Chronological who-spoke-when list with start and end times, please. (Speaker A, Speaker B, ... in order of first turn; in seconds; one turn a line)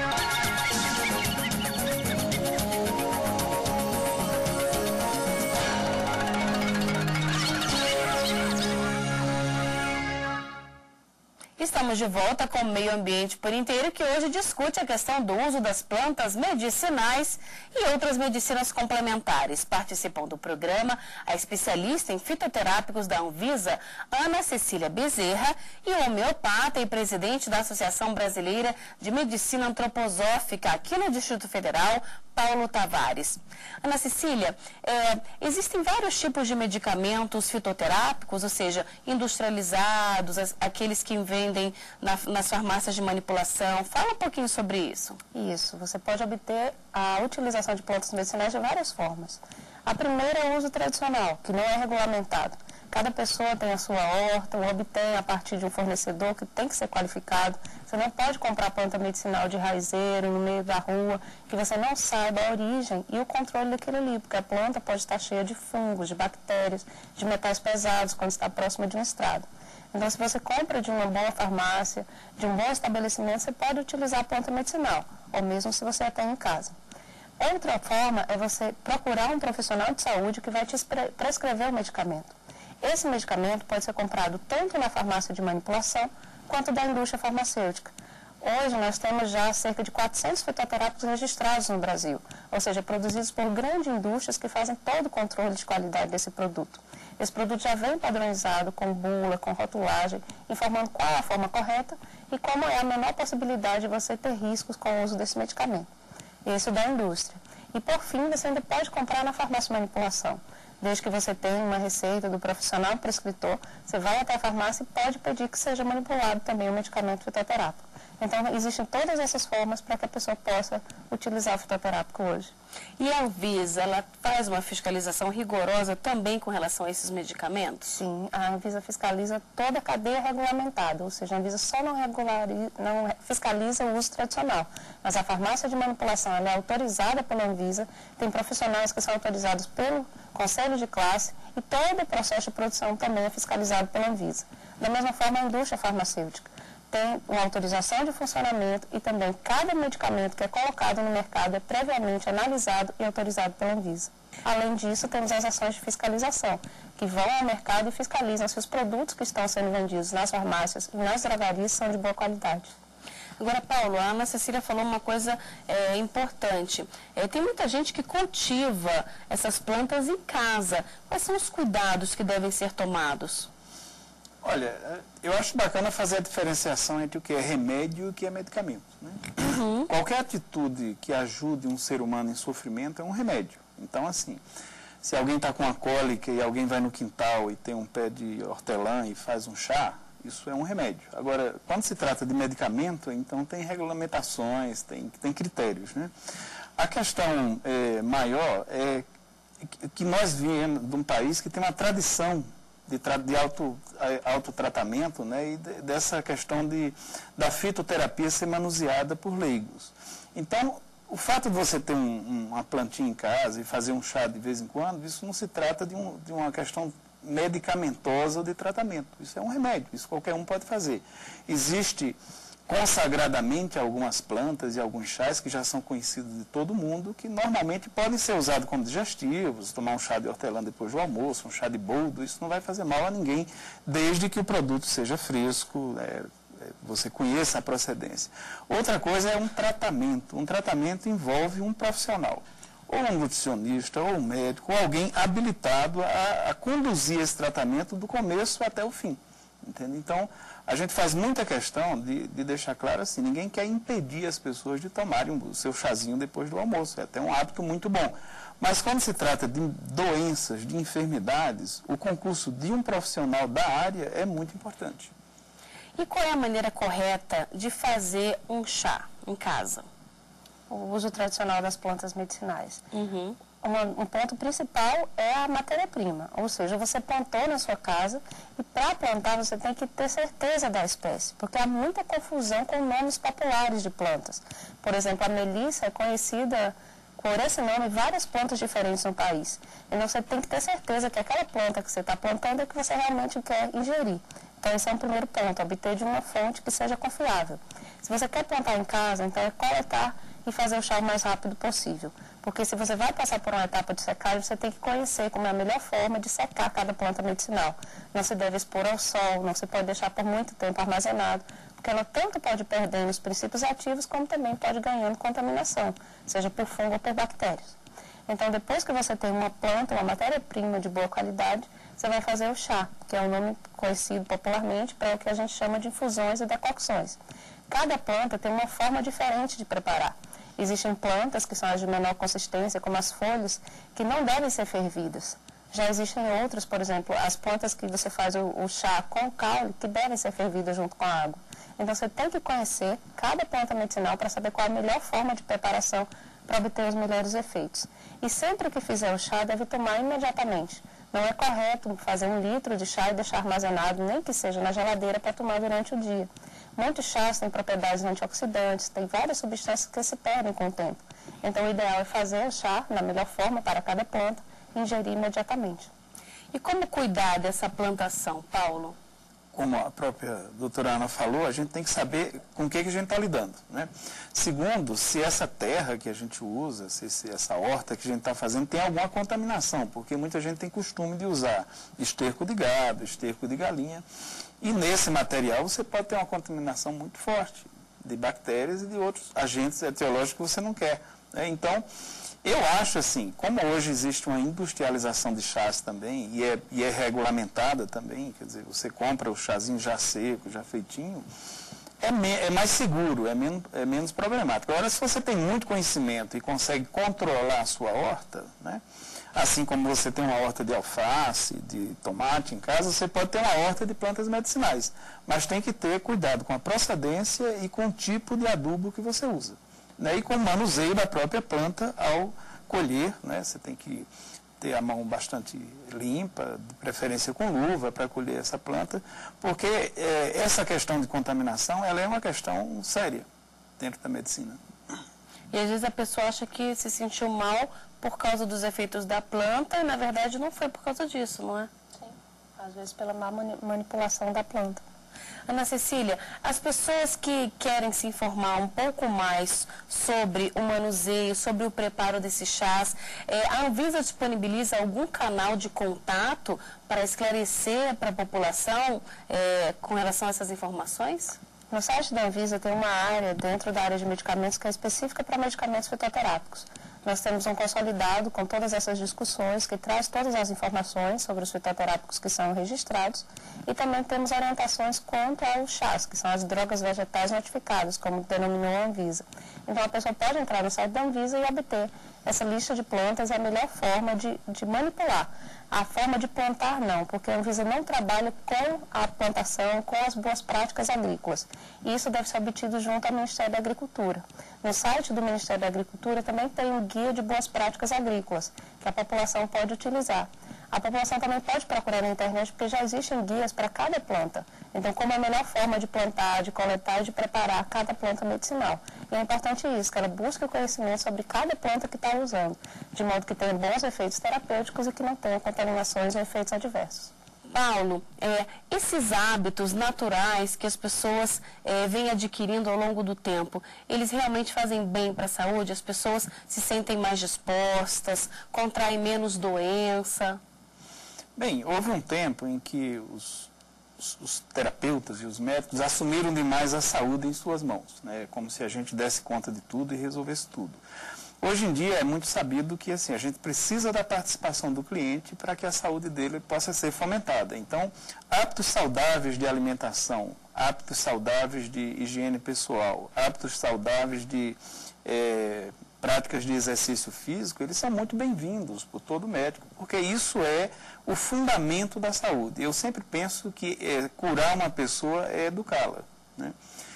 Speaker A: 11.6-45.2
Speaker B: 45.3-76.8
Speaker B: 77.4-105.9
Speaker B: 106.4-122.5
Speaker A: 123.0-128.0
Speaker B: 127.9-162.7
Speaker A: 163.4-173.5
Speaker C: 174.4-179.3
Speaker A: 179.4-179.9
Speaker C: 179.9-184.4
Speaker C: 185.0-196.1
Speaker C: 196.8-199.1
Speaker C: 199.6-265.1
Speaker A: 266.0-269.9
Speaker B: 270.7-272.8
Speaker A: 272.9-273.4
Speaker B: 273.6-317.7
Speaker B: 318.3-365.9
Speaker A: 366.5-368.9
Speaker C: 369.5-384.0
Speaker C: 384.6-391.9
Speaker C: 392.4-401.2
Speaker C: 402.0-408.8
Speaker C: 409.3-424.1
Speaker C: 424.6-433.2
Speaker C: 433.8-434.6
Speaker A: 435.5-441.7
Speaker B: 442.0-444.8
Speaker A: 445.5-461.4
Speaker B: 461.7-517.1
Speaker A: 517.5-530.4
Speaker C: 531.4-540.8
Speaker C: 541.4-566.5